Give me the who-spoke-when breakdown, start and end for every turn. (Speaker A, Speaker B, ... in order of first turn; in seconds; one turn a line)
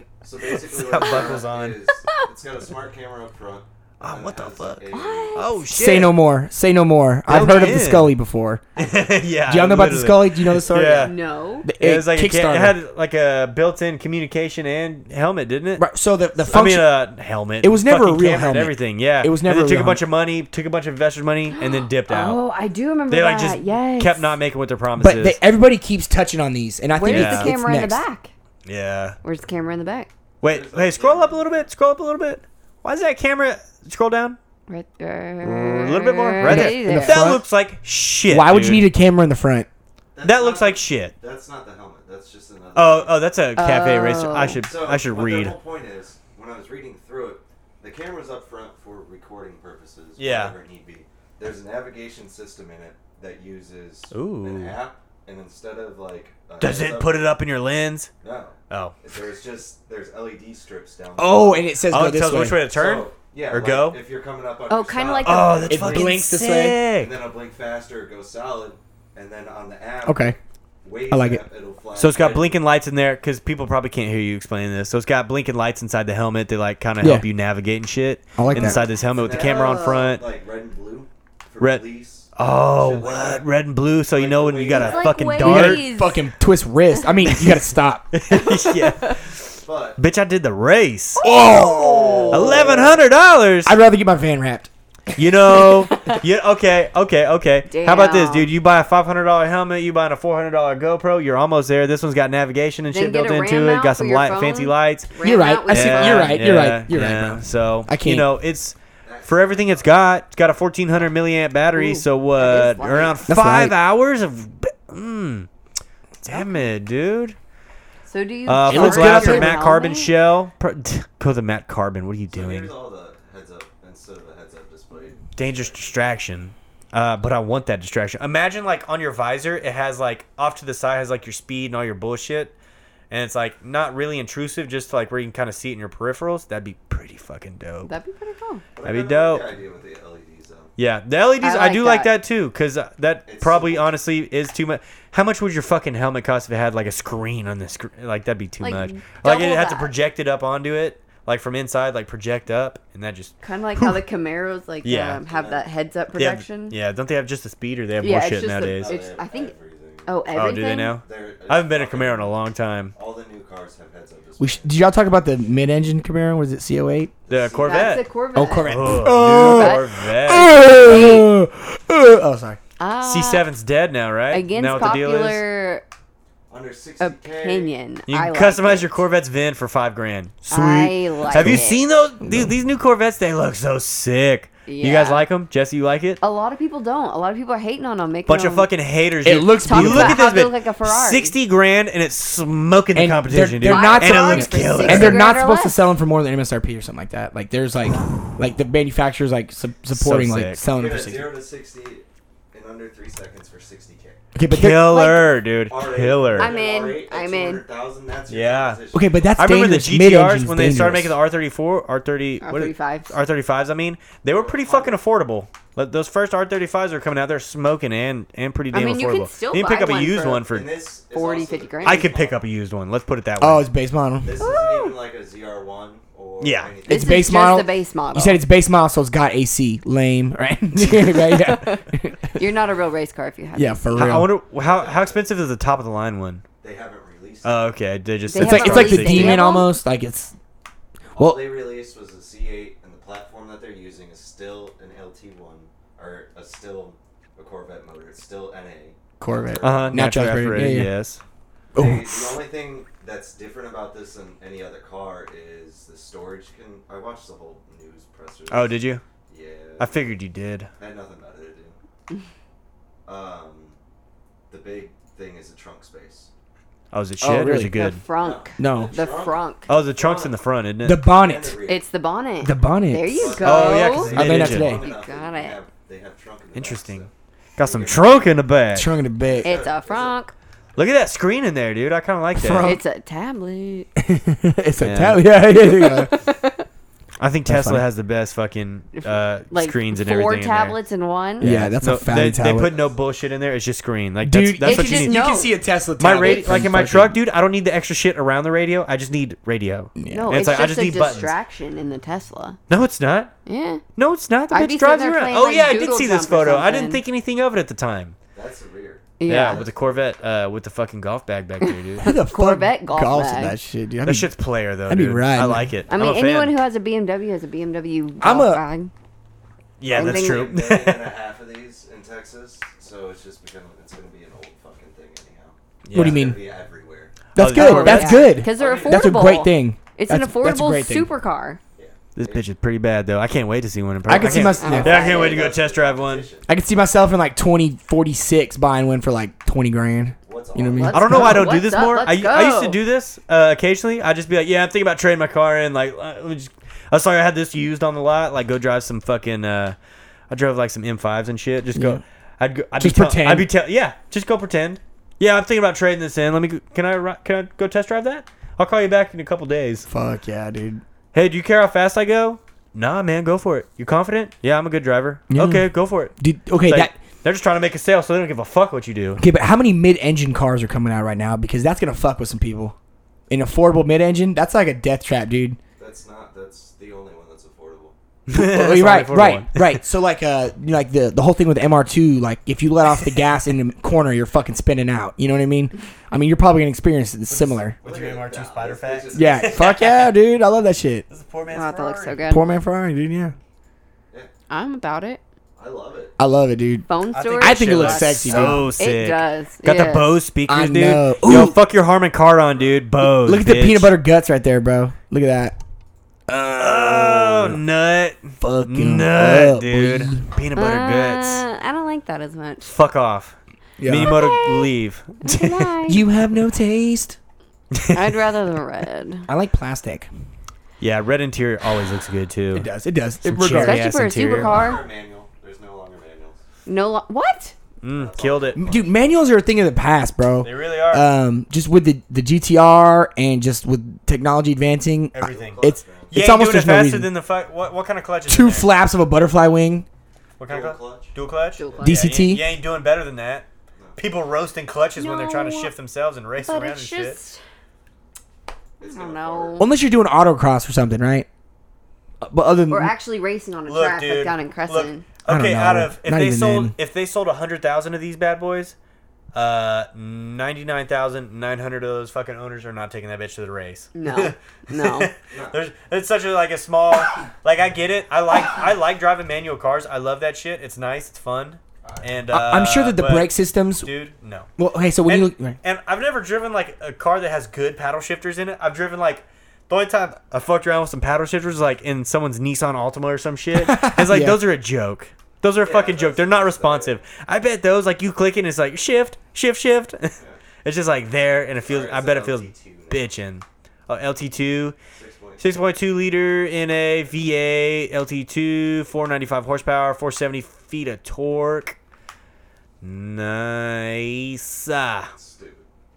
Speaker A: 0.2-5.6
Speaker B: 0.4-1.8
Speaker B: 4.0-4.8
Speaker C: 4.9-5.5
Speaker B: 5.3-6.2
Speaker D: 5.7-8.7
Speaker B: 7.3-8.1
Speaker B: 8.8-11.2
Speaker D: 9.5-12.8
Speaker C: 11.0-11.7
Speaker B: 11.8-15.9
Speaker D: 15.8-16.9
Speaker B: 16.5-22.4
Speaker D: 17.6-20.0
Speaker C: 21.5-24.3
Speaker B: 23.1-25.4
Speaker D: 25.0-28.0
Speaker C: 27.0-28.3
Speaker B: 27.0-27.5
Speaker B: 28.7-29.2
Speaker C: 29.2-30.1
Speaker B: 30.4-34.4
Speaker A: 30.4-31.7
Speaker C: 34.7-37.3
Speaker B: 35.4-38.9
Speaker D: 36.4-37.4
Speaker D: 38.3-39.7
Speaker A: 40.2-43.2
Speaker B: 40.2-41.1
Speaker B: 42.8-45.6
Speaker C: 43.6-44.6
Speaker A: 44.6-57.3
Speaker B: 50.2-50.5
Speaker B: 54.1-54.8
Speaker B: 56.6-58.1
Speaker A: 58.2-61.8
Speaker B: 58.7-59.0
Speaker D: 61.2-62.6
Speaker B: 61.9-64.0
Speaker A: 62.6-66.1
Speaker C: 64.7-66.0
Speaker B: 65.2-67.1
Speaker D: 65.7-66.8
Speaker A: 66.9-72.6
Speaker D: 70.0-70.4
Speaker D: 71.1-71.4
Speaker B: 72.0-80.2
Speaker D: 77.0-77.3
Speaker D: 78.4-78.8
Speaker A: 78.5-83.5
Speaker C: 78.8-80.1
Speaker B: 82.3-85.9
Speaker A: 84.1-85.3
Speaker C: 84.7-86.3
Speaker D: 85.4-88.1
Speaker B: 87.3-87.6
Speaker B: 88.1-91.2
Speaker C: 88.3-89.1
Speaker A: 89.5-90.0
Speaker C: 91.2-92.7
Speaker D: 91.2-92.8
Speaker A: 91.9-92.9
Speaker B: 92.3-93.8
Speaker D: 93.6-94.7
Speaker B: 95.2-105.1
Speaker C: 95.8-96.2
Speaker C: 97.7-98.5
Speaker C: 102.9-106.5
Speaker D: 105.2-108.3
Speaker B: 105.7-115.5
Speaker A: 109.0-110.0
Speaker C: 111.7-113.2
Speaker D: 113.3-113.8
Speaker B: 116.2-117.4
Speaker C: 118.1-120.1
Speaker B: 118.5-122.7
Speaker D: 118.7-119.6
Speaker A: 122.3-126.0
Speaker B: 125.4-132.6
Speaker B: 133.1-137.9
Speaker C: 137.8-138.6
Speaker A: 138.8-140.7
Speaker B: 138.8-139.5
Speaker B: 140.8-153.3
Speaker C: 141.4-142.1
Speaker A: 143.3-143.9
Speaker C: 148.6-149.9
Speaker C: 153.4-156.8
Speaker B: 154.8-155.2
Speaker A: 155.2-155.7
Speaker B: 156.1-158.9
Speaker C: 158.0-159.5
Speaker A: 158.8-160.3
Speaker C: 160.1-161.0
Speaker B: 160.3-162.9
Speaker A: 161.0-162.4
Speaker A: 162.9-164.8
Speaker D: 164.4-167.1
Speaker A: 167.2-168.0
Speaker B: 167.3-168.1
Speaker C: 167.6-169.9
Speaker D: 168.3-172.6
Speaker B: 168.6-170.9
Speaker C: 170.6-171.3
Speaker C: 172.8-173.5
Speaker B: 173.0-175.4
Speaker C: 174.3-175.8
Speaker A: 176.5-177.7
Speaker C: 177.0-179.0
Speaker B: 178.1-186.2
Speaker C: 180.5-181.8
Speaker D: 182.2-182.6
Speaker C: 184.7-185.2
Speaker C: 186.2-188.7
Speaker B: 188.3-195.3
Speaker D: 189.2-190.2
Speaker C: 189.6-191.3
Speaker D: 192.9-201.3
Speaker C: 193.6-195.8
Speaker B: 199.9-200.6
Speaker A: 200.7-204.2
Speaker D: 204.3-205.0
Speaker B: 204.5-206.6
Speaker C: 204.9-205.3
Speaker A: 205.7-209.1
Speaker C: 206.4-207.6
Speaker B: 208.3-208.8
Speaker D: 208.9-211.2
Speaker B: 209.4-220.7
Speaker C: 212.4-213.2
Speaker A: 214.3-215.0
Speaker C: 218.7-220.5
Speaker A: 220.4-222.5
Speaker C: 221.1-222.1
Speaker B: 221.8-223.7
Speaker D: 223.4-224.4
Speaker A: 224.2-227.3
Speaker C: 224.4-225.0
Speaker B: 226.4-226.8
Speaker C: 226.9-228.4
Speaker D: 226.9-232.4
Speaker C: 230.8-234.1
Speaker D: 233.6-234.3
Speaker B: 233.9-236.4
Speaker A: 234.5-235.3
Speaker A: 236.6-237.7
Speaker B: 237.4-239.5
Speaker C: 238.3-239.7
Speaker D: 238.4-240.3
Speaker A: 241.2-250.2
Speaker D: 241.2-241.5
Speaker D: 249.2-250.9
Speaker B: 249.6-251.2
Speaker A: 251.7-260.1
Speaker D: 251.8-252.4
Speaker B: 258.5-259.0
Speaker B: 259.8-260.7
Speaker A: 260.8-261.8
Speaker A: 263.1-263.8
Speaker A: 264.5-266.3
Speaker B: 266.9-268.0
Speaker D: 267.2-267.8
Speaker C: 267.7-269.7
Speaker A: 268.1-270.4
Speaker D: 268.6-268.9
Speaker B: 269.7-271.0
Speaker D: 270.8-271.6
Speaker A: 271.1-271.8
Speaker C: 271.7-275.6
Speaker D: 272.4-273.4
Speaker A: 273.1-278.4
Speaker B: 273.4-274.8
Speaker D: 274.1-274.8
Speaker B: 276.5-278.9
Speaker D: 278.7-279.5
Speaker A: 279.2-280.2
Speaker C: 279.4-280.3
Speaker B: 280.8-282.7
Speaker D: 282.4-282.8
Speaker C: 282.6-283.9
Speaker D: 284.0-286.1
Speaker B: 284.8-285.2
Speaker C: 285.6-286.6
Speaker B: 287.2-290.8
Speaker D: 287.5-287.8
Speaker C: 289.0-291.5
Speaker B: 291.4-295.2
Speaker D: 291.4-292.8
Speaker A: 292.6-292.9
Speaker D: 294.2-297.2
Speaker C: 294.6-295.5
Speaker B: 296.0-301.3
Speaker C: 296.1-296.7
Speaker D: 300.0-300.4
Speaker C: 300.1-302.6
Speaker A: 300.9-301.4
Speaker B: 302.7-303.3
Speaker C: 303.5-303.8
Speaker B: 304.0-308.2
Speaker C: 304.5-307.0
Speaker A: 308.3-310.1
Speaker C: 309.2-309.6
Speaker B: 309.3-312.1
Speaker C: 311.6-313.6
Speaker D: 312.0-314.3
Speaker B: 314.1-316.6
Speaker D: 314.9-315.7
Speaker C: 315.9-318.9
Speaker D: 318.2-318.6
Speaker B: 319.8-321.1
Speaker A: 319.8-327.1
Speaker C: 319.9-320.5
Speaker B: 325.9-326.3
Speaker D: 325.9-326.4
Speaker D: 327.4-331.1
Speaker B: 327.4-328.4
Speaker C: 327.5-331.6
Speaker A: 328.5-329.4
Speaker A: 331.8-332.4
Speaker B: 332.2-336.3
Speaker D: 334.1-335.0
Speaker A: 334.5-336.5
Speaker C: 334.6-335.5
Speaker D: 336.5-341.4
Speaker A: 340.2-341.4
Speaker C: 340.7-342.8
Speaker B: 340.9-349.8
Speaker B: 350.3-359.9
Speaker D: 351.8-352.0
Speaker D: 352.8-353.5
Speaker D: 359.9-360.8
Speaker B: 361.1-369.2
Speaker D: 365.3-366.9
Speaker D: 369.2-372.8
Speaker D: 373.3-375.6
Speaker A: 375.8-377.9
Speaker B: 378.3-379.8
Speaker D: 378.4-387.8
Speaker B: 387.3-390.1
Speaker A: 387.8-389.8
Speaker D: 389.1-391.1
Speaker B: 391.1-392.3
Speaker C: 391.5-392.4
Speaker D: 392.3-393.4
Speaker C: 394.5-395.2
Speaker A: 395.6-396.1
Speaker D: 396.2-396.9
Speaker C: 396.9-400.1
Speaker B: 397.1-403.9
Speaker D: 397.4-398.7
Speaker D: 400.5-401.6
Speaker D: 403.0-405.6
Speaker D: 406.3-407.6
Speaker B: 406.6-411.4
Speaker D: 408.4-410.3
Speaker C: 410.6-412.8
Speaker B: 412.7-415.7
Speaker D: 413.8-414.2
Speaker C: 414.0-416.0
Speaker D: 415.9-417.2
Speaker B: 417.7-418.0
Speaker C: 417.9-419.3
Speaker D: 419.3-420.1
Speaker B: 420.8-422.7
Speaker D: 422.5-423.8
Speaker C: 423.2-424.8
Speaker B: 423.2-424.8
Speaker A: 424.4-426.4
Speaker C: 426.7-427.6
Speaker B: 427.8-428.6
Speaker A: 427.9-428.9
Speaker D: 428.6-437.1
Speaker B: 430.4-431.1
Speaker B: 435.1-438.7
Speaker A: 435.2-436.1
Speaker D: 438.3-439.9
Speaker B: 440.4-447.2
Speaker A: 440.5-441.9
Speaker C: 441.6-442.2
Speaker D: 441.8-442.4
Speaker C: 445.0-445.7
Speaker C: 446.4-447.4
Speaker A: 448.8-449.6
Speaker C: 448.8-449.7
Speaker D: 449.6-451.3
Speaker D: 452.2-452.9
Speaker C: 452.7-455.1
Speaker B: 453.7-458.8
Speaker D: 455.3-456.8
Speaker B: 459.3-474.5
Speaker C: 463.9-465.1
Speaker A: 465.3-465.6
Speaker D: 472.3-473.9
Speaker D: 474.6-475.6
Speaker B: 475.1-494.8
Speaker D: 483.6-484.4
Speaker A: 485.6-487.0
Speaker A: 490.2-490.4
Speaker A: 491.6-493.1
Speaker A: 494.9-495.5
Speaker B: 495.4-501.8
Speaker B: 502.8-505.1
Speaker A: 505.1-505.7